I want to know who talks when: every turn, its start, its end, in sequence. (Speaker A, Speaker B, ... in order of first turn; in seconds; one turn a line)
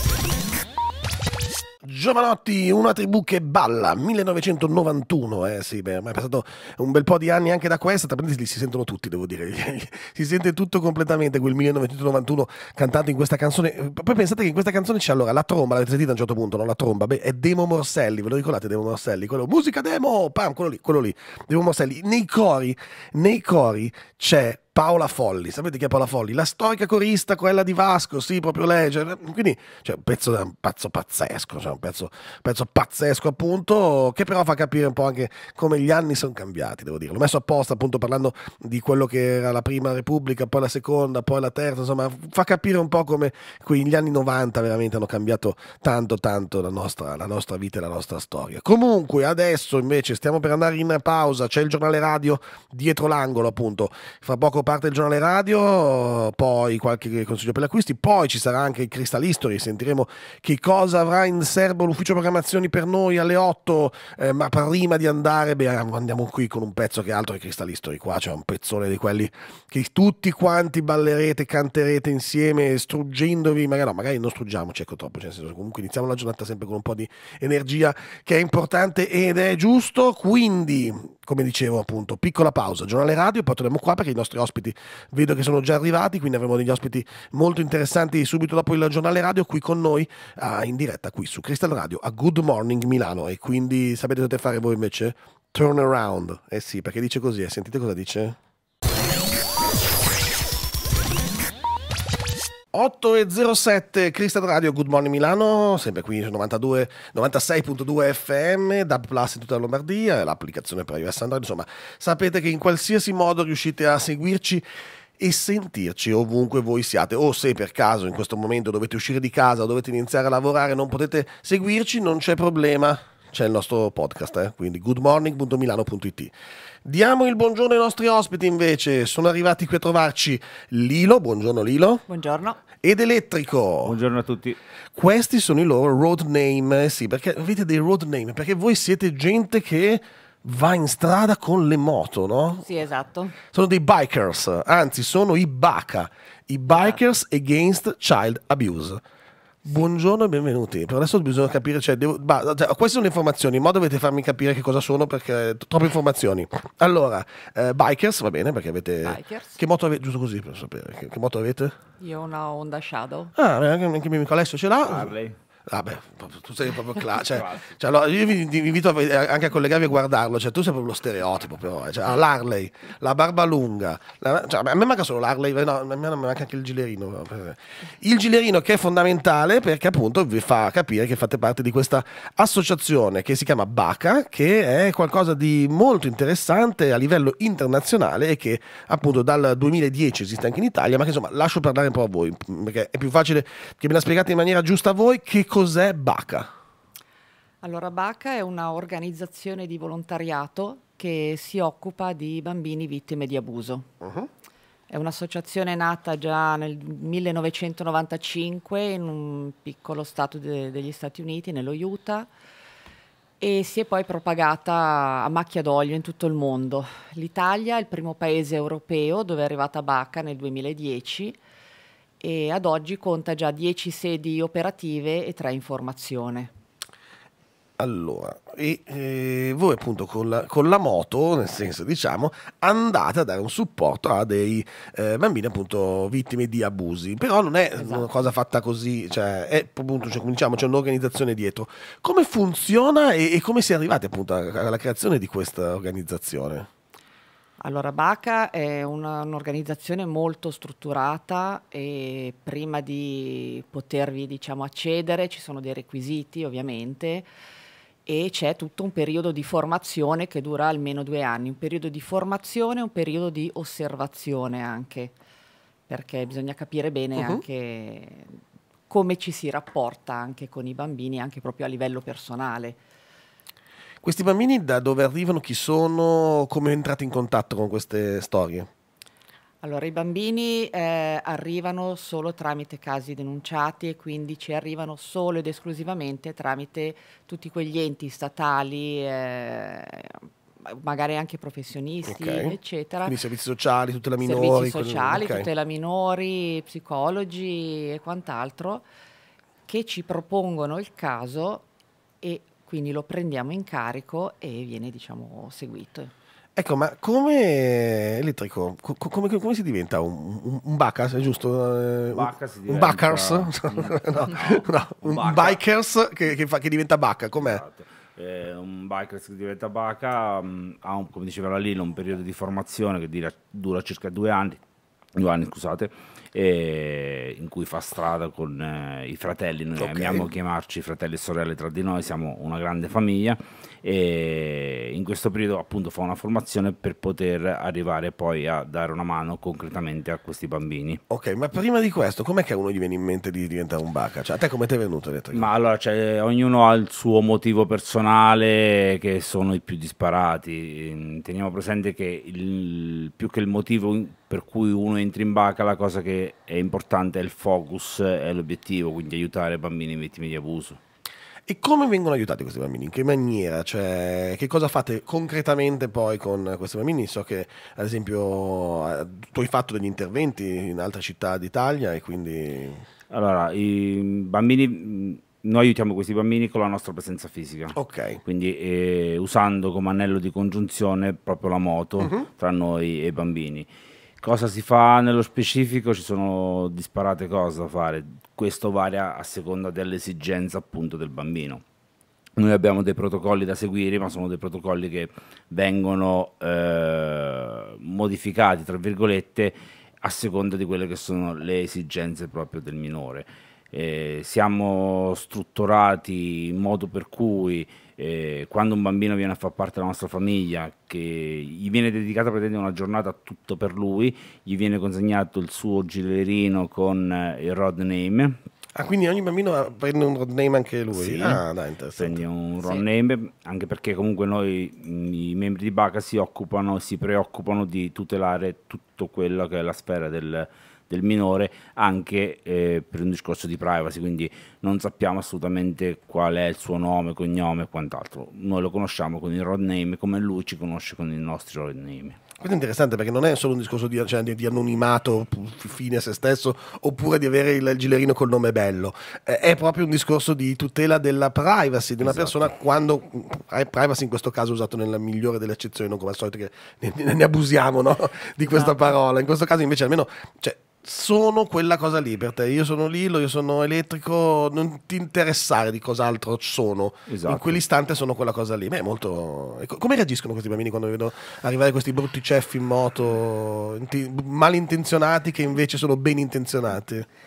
Speaker A: 1.8-98.4
Speaker A: 102.7-114.6
Speaker A: 115.2-126.3
Speaker A: 126.8-132.0
Speaker B: 132.1-132.6
Speaker A: 132.8-133.9
Speaker C: 133.8-134.6
Speaker A: 134.9-142.7
Speaker B: 142.6-143.3
Speaker A: 143.5-149.0
Speaker B: 146.7-147.0
Speaker A: 149.7-161.7
Speaker B: 159.0-159.6
Speaker B: 162.0-163.3
Speaker A: 163.3-165.1
Speaker C: 164.8-165.3
Speaker A: 165.7-196.5
Speaker C: 167.3-167.6
Speaker B: 197.6-203.9
Speaker A: 204.0-204.3
Speaker B: 204.9-212.3
Speaker B: 213.4-221.4
Speaker B: 222.2-226.5
Speaker A: 227.8-246.7
Speaker B: 237.8-238.1
Speaker B: 247.6-257.3
Speaker B: 258.1-265.1
Speaker B: 265.9-272.8
Speaker A: 267.2-267.4
Speaker A: 274.0-278.7
Speaker B: 279.6-293.1
Speaker A: 292.1-295.5
Speaker B: 294.2-298.8
Speaker B: 299.6-301.6
Speaker B: 302.2-306.1
Speaker A: 306.6-317.6
Speaker C: 312.1-315.6
Speaker C: 317.4-324.6
Speaker C: 325.1-341.0
Speaker A: 329.8-330.3
Speaker A: 341.1-345.5
Speaker C: 345.3-360.8
Speaker A: 361.5-372.8
Speaker C: 373.1-383.7
Speaker A: 377.7-378.2
Speaker A: 382.0-382.2
Speaker C: 384.2-391.6
Speaker C: 392.4-418.4
Speaker A: 418.8-422.2
Speaker C: 420.9-421.4
Speaker C: 422.0-442.2
Speaker A: 442.4-477.1
Speaker C: 452.0-452.5
Speaker C: 467.1-467.6